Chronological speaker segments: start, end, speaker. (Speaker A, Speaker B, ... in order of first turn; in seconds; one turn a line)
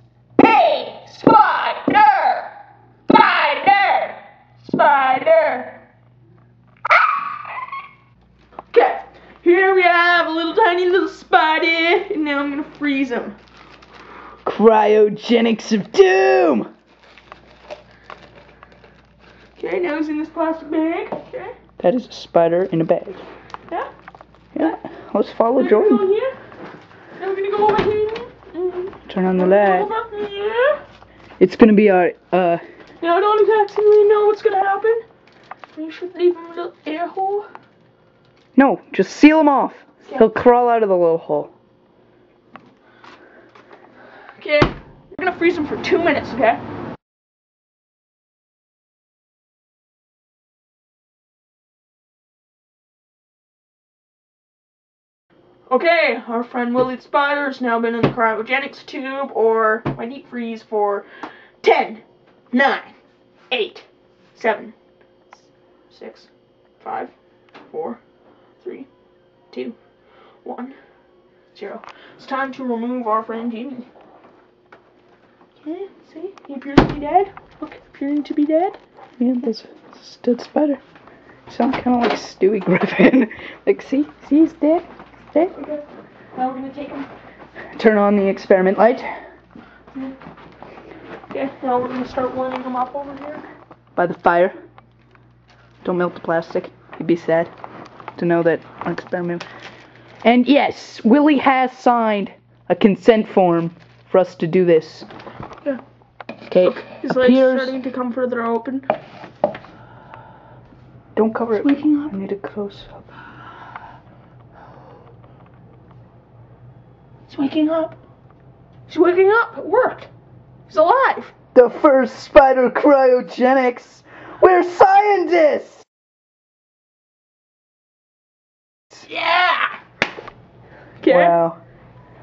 Speaker A: 0.4-2.5
Speaker A: 3.1-5.8
Speaker A: 8.7-13.4
Speaker B: 14.4-16.7
Speaker A: 19.6-21.5
Speaker B: 21.8-23.2
Speaker B: 24.5-26.1
Speaker A: 25.6-26.3
Speaker A: 27.2-30.8
Speaker B: 29.1-29.9
Speaker B: 31.4-32.6
Speaker A: 33.0-35.0
Speaker A: 35.7-37.5
Speaker B: 38.5-41.5
Speaker A: 44.4-46.6
Speaker A: 55.7-61.0
Speaker A: 61.6-62.9
Speaker A: 63.5-64.7
Speaker A: 65.9-66.3
Speaker A: 66.8-67.1
Speaker A: 67.7-68.0
Speaker A: 68.6-68.9
Speaker A: 69.5-69.8
Speaker A: 70.4-70.8
Speaker A: 71.5-73.9
Speaker A: 75.6-78.8
Speaker B: 79.2-80.8
Speaker B: 81.5-85.5
Speaker A: 85.5-87.1
Speaker B: 87.8-89.1
Speaker A: 91.3-93.4
Speaker B: 94.0-94.5
Speaker B: 95.8-97.5
Speaker B: 98.2-99.4
Speaker B: 100.2-105.1
Speaker B: 106.5-107.8
Speaker A: 106.6-108.9
Speaker B: 111.2-113.0
Speaker A: 111.5-112.1
Speaker A: 117.3-117.9
Speaker A: 118.9-120.1
Speaker A: 120.7-121.3
Speaker B: 121.5-125.8
Speaker A: 129.0-129.8
Speaker A: 131.0-131.4
Speaker B: 131.0-131.6